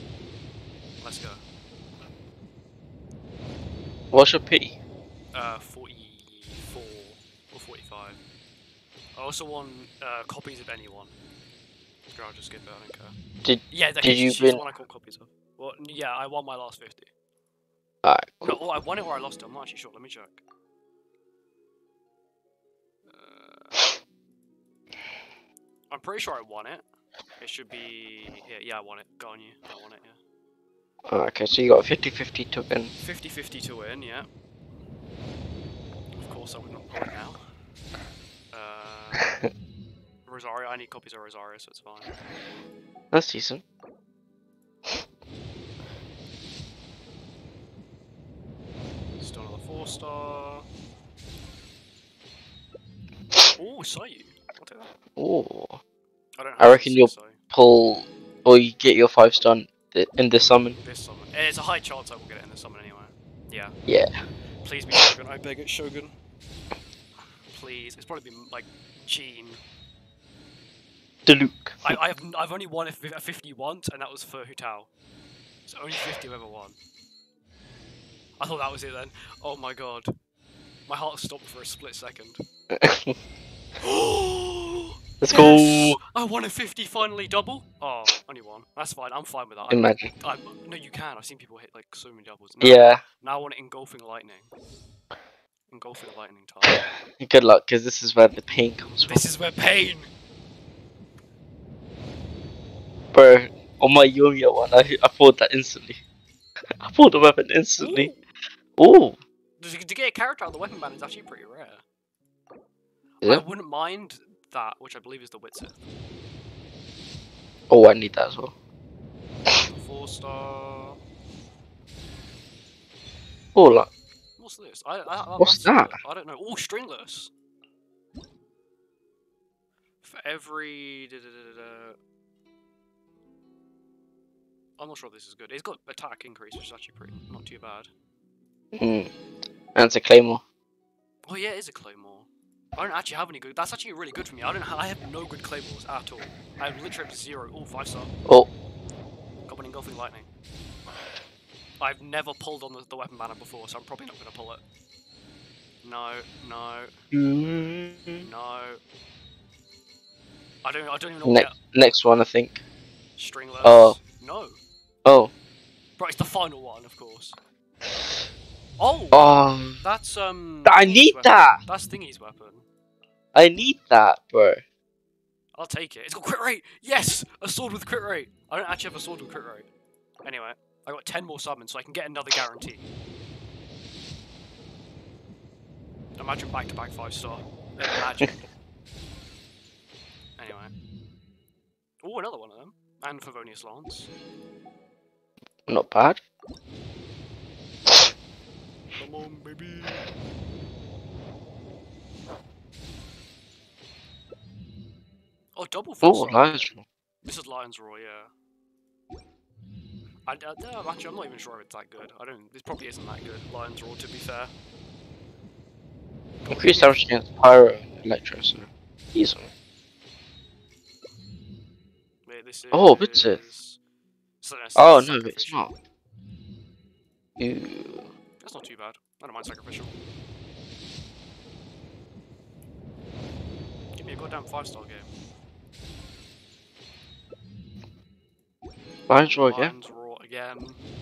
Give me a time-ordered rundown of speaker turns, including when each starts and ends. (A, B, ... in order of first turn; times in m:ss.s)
0:01.0-0:01.4 A
0:04.1-0:04.7 B
0:05.3-0:08.2 A
0:09.1-0:11.1 A
0:12.1-0:13.2 A
0:13.4-0:14.6 B
0:13.7-0:17.1 A
0:18.0-0:18.6 B
0:18.4-0:20.4 A
0:23.0-0:23.8 A
0:25.9-0:26.8 A
0:27.4-0:30.2 A
0:31.1-0:32.9 B
0:33.0-0:34.3 A
0:36.2-0:37.4 A
0:38.5-0:39.3 A
0:40.2-0:42.1 A
0:43.1-0:43.6 B
0:49.2-0:50.6 A
0:53.5-0:54.9 A
0:55.2-0:55.8 B
0:56.4-0:57.4 A
0:56.6-1:00.8 B
1:00.7-1:03.7 A
1:04.6-1:06.2 A
1:07.5-1:09.6 A
1:11.2-1:12.0 B
1:11.8-1:14.9 A
1:15.6-1:16.8 A
1:18.4-1:20.1 A
1:20.8-1:22.4 A
1:22.7-1:23.2 B
1:23.8-1:34.5 A
1:25.2-1:26.0 B
1:29.7-1:30.1 B
1:32.6-1:33.0 B
1:35.7-1:36.9 A
1:36.6-1:39.3 B
1:39.0-1:40.1 A
1:43.1-1:46.0 B
1:46.8-1:48.1 B
1:47.8-1:48.2 A
1:48.8-1:49.2 B
1:49.6-1:51.8 A
1:53.2-1:55.9 A
1:57.7-1:58.5 B
1:59.5-2:01.0 A
2:03.5-2:03.9 B
2:04.4-2:07.3 A
2:05.4-2:05.9 B
2:10.0-2:12.0 A
2:14.8-2:17.9 A
2:18.7-2:19.1 B
2:19.7-2:20.4 B
2:21.2-2:28.1 A
2:29.4-2:30.3 A
2:31.8-2:34.6 A
2:35.8-2:36.9 A
2:37.1-2:38.3 B
2:38.2-2:38.8 A
2:40.6-2:41.6 A
2:41.2-2:42.6 B
2:43.2-2:44.6 A
2:43.6-2:44.0 B
2:45.0-2:45.3 B
2:46.0-2:47.4 A
2:48.8-2:52.6 A
2:49.1-2:49.8 B
2:50.6-2:51.6 B
2:53.3-2:54.6 B
2:55.5-2:59.7 A
3:00.2-3:02.9 A
3:06.2-3:08.5 A
3:10.4-3:10.7 A
3:12.0-3:14.1 A
3:15.7-3:16.2 B
3:19.0-3:20.1 A
3:25.6-3:26.7 A
3:26.0-3:26.8 B
3:27.2-3:28.3 A
3:30.2-3:34.5 A
3:36.4-3:37.0 A
3:36.5-3:39.5 B
3:42.2-3:43.8 A
3:42.7-3:43.4 B
3:44.4-3:45.7 A
3:44.8-3:45.7 B
3:47.4-3:48.1 B
3:48.4-3:49.9 A
3:53.9-3:55.1 A
3:59.1-3:59.7 B
3:59.4-4:00.8 A